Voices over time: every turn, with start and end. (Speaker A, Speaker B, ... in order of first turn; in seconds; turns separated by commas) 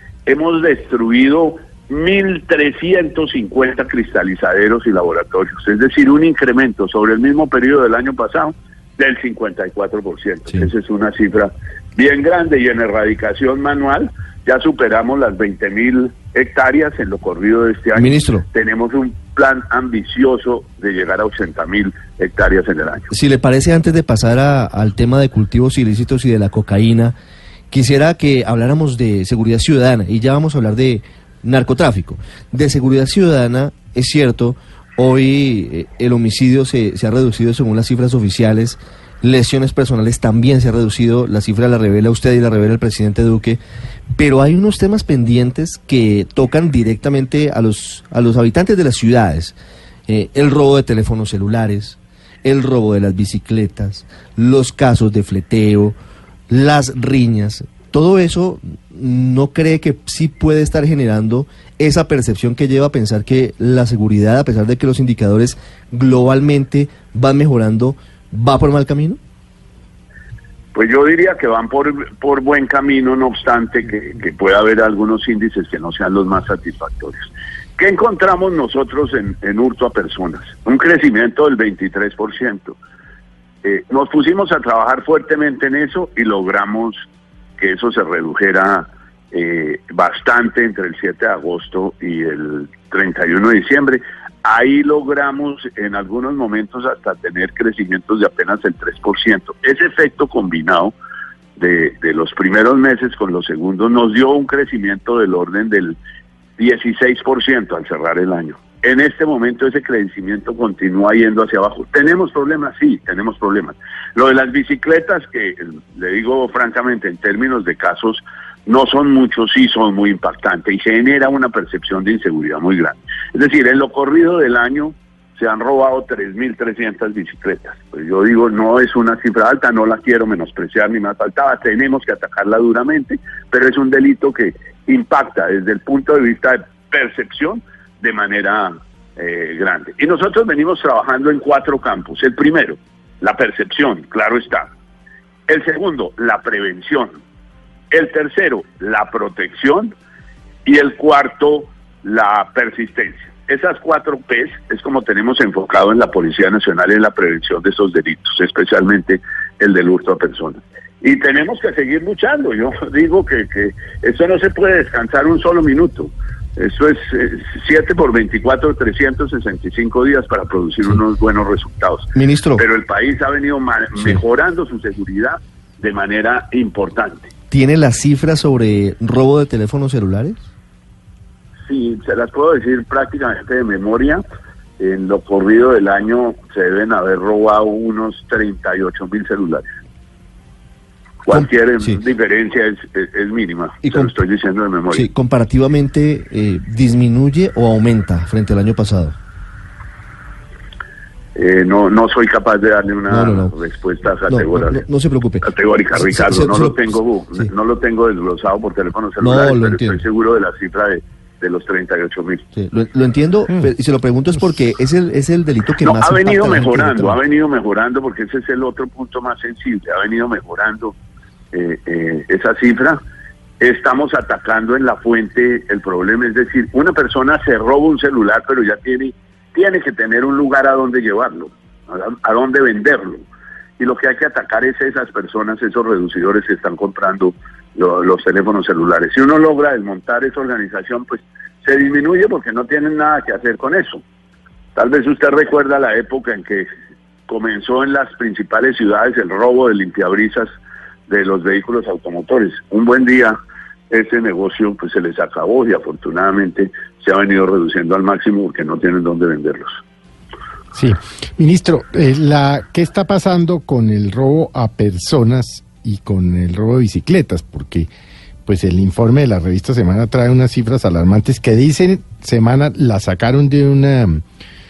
Speaker A: 0.2-23.1, Speaker B: 17.9-18.4, Speaker B: 23.1-27.1, Speaker B: 27.7-43.6, Speaker B: 44.1-49.5, Speaker B: 50.1-55.9, Speaker B: 56.5-69.2, Speaker A: 70.7-77.3, Speaker A: 77.8-82.8, Speaker A: 83.6-87.0, Speaker A: 87.6-100.9, Speaker A: 101.5-106.0, Speaker A: 106.6-144.7, Speaker A: 145.5-147.2, Speaker A: 147.9-149.9, Speaker A: 150.6-177.3, Speaker B: 172.1-172.6, Speaker B: 177.5-180.4, Speaker A: 181.7-184.2, Speaker A: 184.8-189.7, Speaker A: 191.2-195.1, Speaker B: 191.3-192.0, Speaker B: 193.8-194.1, Speaker B: 194.9-199.1, Speaker A: 201.3-204.8, Speaker B: 203.1-203.5, Speaker B: 204.3-207.5, Speaker A: 205.4-212.4, Speaker B: 209.2-210.0, Speaker B: 212.5-217.2, Speaker A: 215.8-220.9, Speaker A: 221.5-223.0, Speaker A: 223.6-233.2, Speaker A: 233.8-244.0, Speaker A: 244.7-246.7, Speaker A: 247.3-250.5, Speaker A: 251.1-253.3, Speaker A: 253.9-259.8, Speaker C: 260.7-267.9, Speaker C: 268.4-274.2